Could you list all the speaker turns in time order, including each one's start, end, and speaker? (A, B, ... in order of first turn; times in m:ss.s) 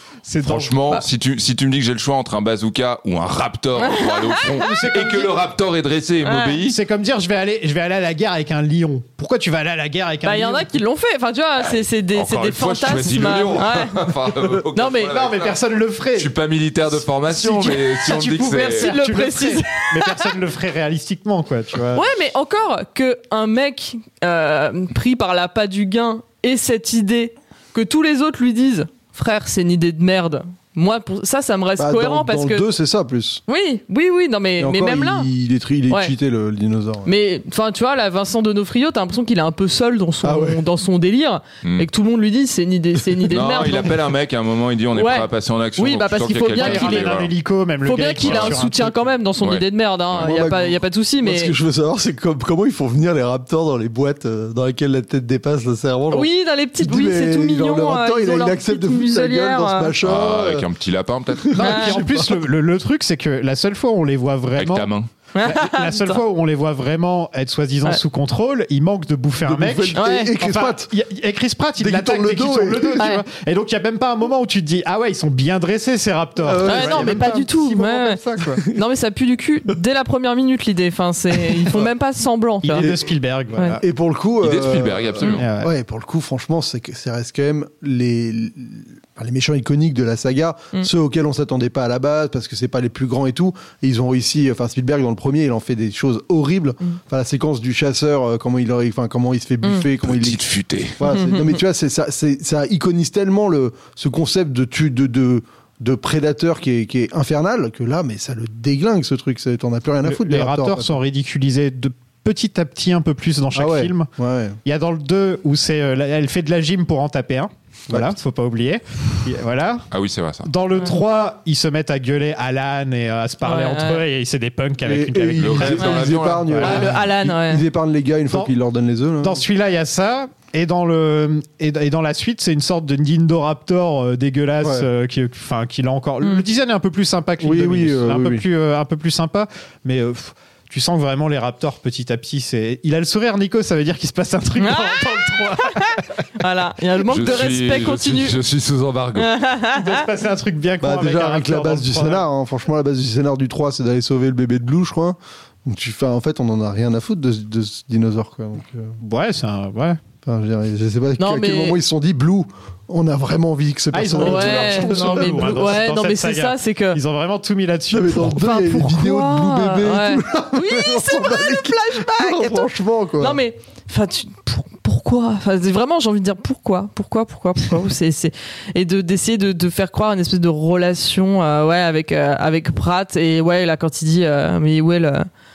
0:00.2-0:01.0 A
0:00.4-0:06.8 B
0:03.8-0:04.5 C
0:04.5-0:05.3 A
0:06.2-0:06.6 C
0:06.6-0:10.8 A
0:10.2-0:14.1 C
0:11.7-0:15.6 B
0:14.7-0:15.1 C
0:15.1-0:16.3 A
0:16.2-0:18.9 B
0:17.3-0:22.1 A
0:18.3-0:20.3 C
0:21.9-0:32.6 C
0:31.8-0:33.4 D
0:33.5-0:35.3 C
0:34.6-0:37.1 D
0:37.0-0:44.0 C
0:40.2-0:40.6 D
0:41.6-0:41.9 B
0:43.3-0:47.3 B
0:44.9-0:47.1 C
0:46.5-0:49.1 A
0:47.8-0:51.5 C
0:48.2-0:48.5 B
0:49.4-0:50.3 B
0:50.2-1:00.6 D
0:56.1-0:59.9 C
1:00.0-1:01.7 B
1:01.3-1:02.4 D
1:01.5-1:04.9 A
1:01.6-1:01.9 C
1:04.6-1:05.1 B
1:05.3-1:06.2 C
1:05.4-1:18.7 A
1:09.4-1:10.9 D
1:09.9-1:10.3 C
1:11.8-1:13.1 D
1:13.0-1:13.2 C
1:16.4-1:17.4 D
1:16.6-1:18.2 C
1:18.7-1:22.9 C
1:21.5-1:21.8 D
1:22.6-1:23.8 A
1:22.7-1:23.1 D
1:23.8-1:40.4 D
1:24.4-1:25.4 B
1:25.3-1:25.7 A
1:40.0-1:40.9 B
1:41.0-1:50.9 D
1:41.1-1:41.6 C
1:50.0-1:54.1 A
1:53.5-1:54.6 D
1:54.6-1:59.9 A
1:57.9-1:58.2 D
1:59.9-2:00.5 B
2:00.4-2:06.9 A
2:03.4-2:04.0 C
2:04.8-2:09.4 D
2:05.4-2:06.9 B
2:06.6-2:07.6 C
2:09.2-2:26.1 A
2:17.4-2:18.4 D
2:24.6-2:28.4 C
2:27.1-2:29.3 B
2:29.2-2:30.0 C
2:29.7-2:32.2 A
2:30.8-2:38.9 D
2:39.0-2:40.0 A
2:40.2-2:45.8 D
2:41.2-2:41.8 C
2:43.9-2:48.4 A
2:44.2-2:47.0 C
2:47.9-2:53.4 D
2:48.3-2:52.6 C
2:53.2-3:05.3 C